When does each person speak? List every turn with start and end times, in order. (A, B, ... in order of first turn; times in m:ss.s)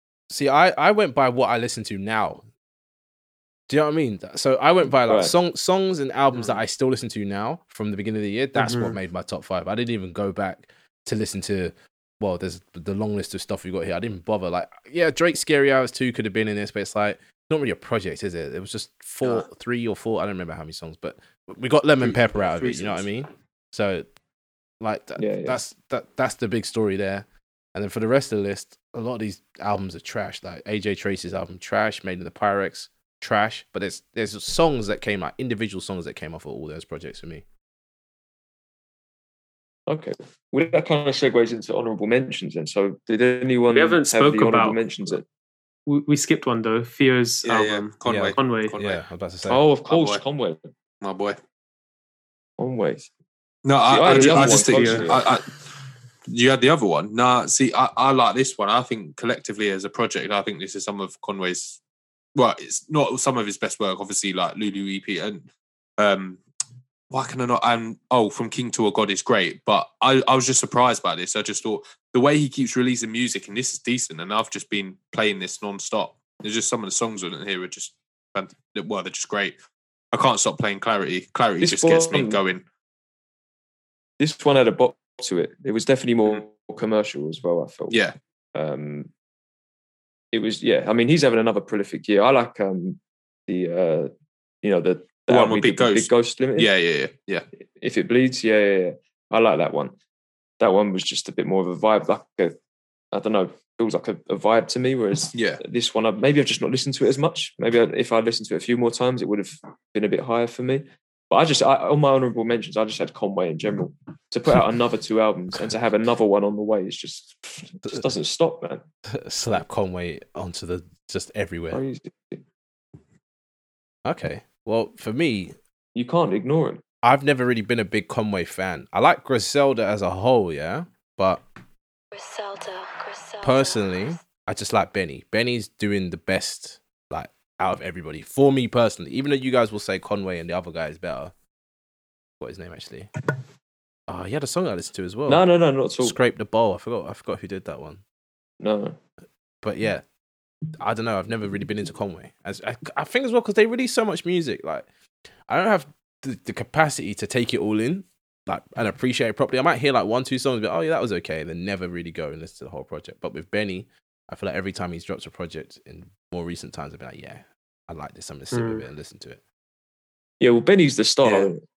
0:00.3-0:02.4 A
0:03.7-0:24.1 A
0:05.1-0:05.3 B
0:06.3-0:06.6 C
0:08.6-0:09.0 D
0:22.0-0:23.1 C
0:24.8-0:37.4 A
0:25.2-0:25.6 B
0:39.9-0:45.3 B
0:43.7-0:44.8 D
0:45.9-0:48.8 D
0:47.4-0:49.0 C
0:48.0-0:49.6 A
0:49.5-0:50.7 B
0:49.9-0:50.2 C
0:51.0-0:51.4 C
0:52.6-0:53.1 B
0:53.6-0:55.6 C
0:53.9-0:55.3 B
0:54.0-0:55.2 D
0:56.3-1:01.8 C
1:02.4-1:05.5 C
1:06.0-1:06.4 C
1:07.1-1:19.6 C
1:20.1-1:22.6 C
1:21.6-1:22.4 B
1:24.2-1:28.0 B
1:27.9-1:28.2 C
1:28.6-1:29.1 B
1:30.3-1:34.1 B
1:34.6-1:36.7 B
1:35.3-1:37.5 C
1:37.8-1:40.0 B
1:40.6-1:42.6 B
1:43.1-1:58.8 B
1:45.3-1:45.6 C
1:59.1-2:01.8 A
2:01.7-2:02.4 B
2:04.0-2:05.6 A
2:06.0-2:06.8 B
2:07.0-2:11.4 A
2:12.1-2:14.2 E
2:13.4-2:21.3 A
2:22.4-2:23.1 A
2:24.1-2:25.4 A
2:25.3-2:26.2 B
2:26.0-2:28.0 A
2:28.6-2:29.0 B
2:29.6-2:30.0 A
2:30.8-2:34.9 A
2:35.5-2:49.4 A
2:48.5-2:48.9 D
2:50.4-2:51.6 B
2:51.2-2:51.5 C